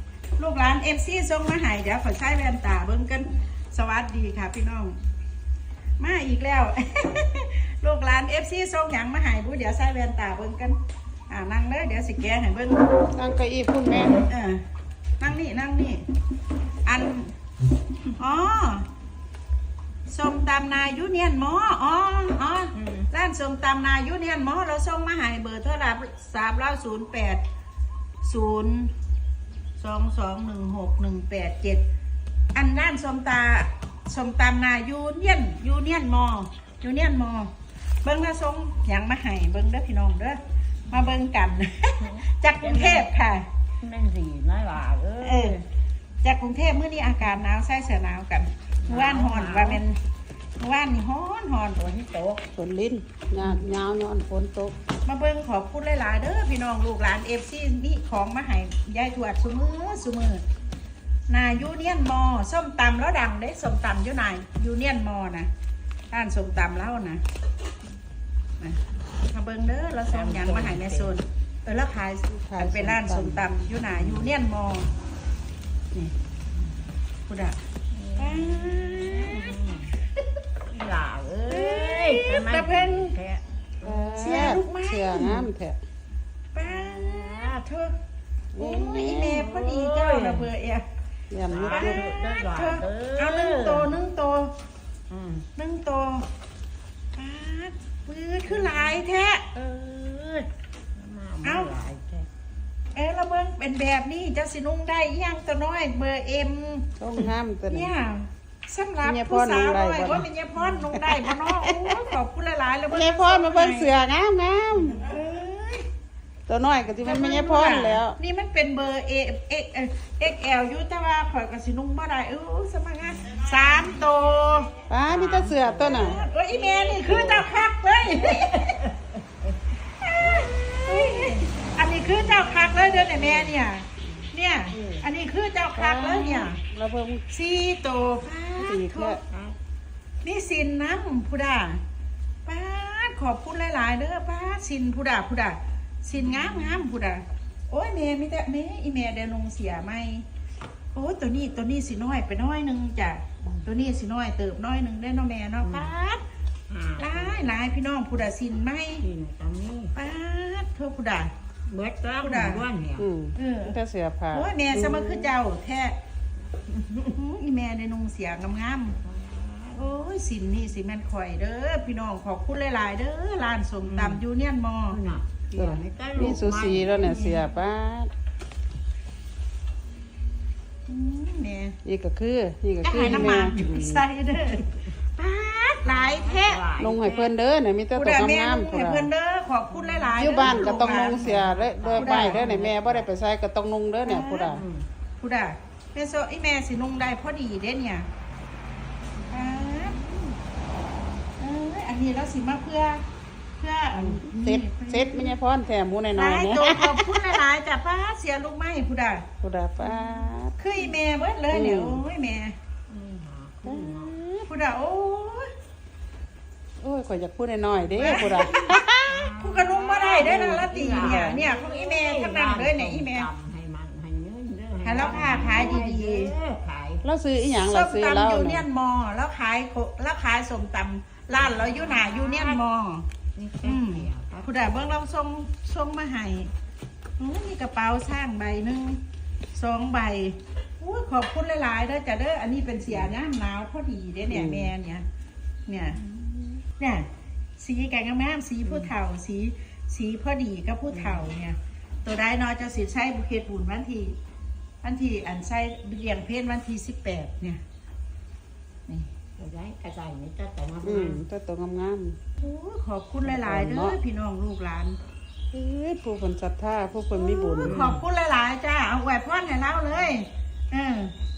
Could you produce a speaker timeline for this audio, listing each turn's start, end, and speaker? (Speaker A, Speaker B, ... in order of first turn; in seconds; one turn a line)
Speaker A: 0.4-4.9
Speaker A: 6.0-12.8
Speaker B: 13.1-14.2
Speaker A: 14.2-14.6
Speaker A: 15.2-16.0
Speaker A: 16.8-17.3
Speaker A: 18.2-18.9
Speaker A: 20.1-27.4
Speaker C: 22.8-23.1
Speaker A: 28.2-28.9
Speaker A: 29.8-31.8
Speaker A: 32.5-37.5
Speaker A: 38.0-43.4
Speaker C: 42.0-43.1
Speaker C: 43.8-45.6
Speaker A: 45.2-45.6
Speaker A: 46.2-50.0
Speaker C: 48.8-49.8
Speaker A: 50.6-51.8
Speaker C: 51.8-52.5
Speaker B: 52.5-54.7
Speaker C: 53.4-53.6
Speaker A: 55.0-60.4
Speaker A: 61.3-65.5
Speaker A: 66.1-67.2
Speaker A: 68.6-74.9
Speaker C: 70.1-71.1
Speaker B: 72.3-73.5
Speaker C: 73.9-74.3
Speaker A: 77.2-77.6
Speaker C: 77.9-79.9
Speaker A: 78.2-79.5
Speaker C: 80.7-84.2
Speaker A: 81.5-83.2
Speaker B: 83.8-85.8
Speaker A: 84.2-85.5
Speaker A: 86.5-88.0
Speaker C: 86.7-87.6
Speaker B: 88.5-89.4
Speaker A: 88.6-90.8
Speaker C: 89.4-90.5
Speaker B: 91.3-92.0
Speaker C: 91.5-93.9
Speaker A: 91.6-94.5
Speaker C: 95.1-95.5
Speaker A: 95.5-96.2
Speaker A: 97.2-99.5
Speaker C: 98.5-99.0
Speaker C: 99.5-102.3
Speaker A: 101.4-101.7
Speaker A: 102.9-113.9
Speaker B: 107.0-107.9
Speaker B: 109.0-110.3
Speaker B: 110.9-112.1
Speaker B: 112.9-115.1
Speaker A: 114.8-115.8
Speaker B: 116.5-118.2
Speaker A: 117.0-124.7
Speaker B: 124.9-126.2
Speaker C: 125.0-129.6
Speaker A: 125.8-128.8
Speaker A: 130.0-136.6
Speaker C: 130.3-133.5
Speaker B: 134.0-134.3
Speaker C: 134.7-135.0
Speaker B: 135.7-137.2
Speaker A: 137.3-139.2
Speaker B: 138.6-139.2
Speaker C: 139.3-139.6
Speaker A: 140.2-141.8
Speaker A: 142.4-150.2
Speaker C: 146.2-146.8
Speaker A: 150.9-156.2
Speaker C: 155.6-155.9
Speaker C: 156.7-157.5
Speaker A: 157.0-159.0
Speaker C: 159.0-159.9
Speaker A: 159.9-161.3
Speaker C: 161.7-163.1
Speaker A: 162.2-162.6
Speaker B: 163.0-165.3
Speaker A: 163.3-163.8
Speaker A: 164.3-165.9
Speaker C: 166.7-167.1
Speaker A: 167.1-168.9
Speaker C: 169.0-169.8
Speaker A: 169.7-175.0
Speaker C: 173.8-174.2
Speaker C: 174.9-177.5
Speaker B: 175.5-178.1
Speaker A: 180.9-181.8
Speaker B: 181.8-184.0
Speaker A: 182.8-184.6
Speaker C: 183.0-183.7
Speaker A: 185.2-186.6
Speaker C: 185.8-187.3
Speaker B: 186.8-189.1
Speaker A: 187.9-191.4
Speaker C: 189.7-193.1
Speaker B: 190.2-194.6
Speaker A: 192.0-192.5
Speaker A: 194.0-194.5
Speaker C: 194.4-194.8
Speaker A: 195.2-198.1
Speaker A: 199.3-200.0
Speaker C: 199.7-200.2
Speaker A: 201.4-203.0
Speaker A: 203.6-205.3
Speaker B: 204.2-207.2
Speaker A: 206.1-209.2
Speaker B: 209.4-210.6
Speaker A: 209.8-212.5
Speaker B: 211.5-212.0
Speaker C: 212.9-214.1
Speaker B: 213.6-214.5
Speaker A: 214.5-215.5
Speaker B: 216.8-219.3
Speaker C: 218.0-227.0
Speaker A: 218.0-218.7
Speaker A: 219.4-223.3
Speaker B: 220.2-221.4
Speaker A: 224.8-226.3
Speaker B: 225.0-225.8
Speaker B: 227.0-228.7
Speaker A: 227.4-233.1
Speaker C: 231.3-232.6
Speaker C: 233.3-234.9
Speaker A: 233.6-236.5
Speaker A: 237.2-239.0
Speaker A: 239.5-245.0
Speaker C: 242.9-243.1
Speaker B: 244.3-244.7
Speaker A: 245.7-246.0
Speaker C: 246.0-246.6
Speaker A: 246.7-247.1
Speaker A: 247.6-254.1
Speaker C: 248.6-248.9
Speaker C: 250.9-251.3
Speaker A: 254.8-257.6
Speaker C: 259.4-261.2
Speaker B: 260.8-262.2
Speaker A: 262.4-265.0
Speaker B: 263.2-264.0
Speaker B: 265.5-267.8
Speaker A: 267.1-271.1
Speaker C: 267.6-268.0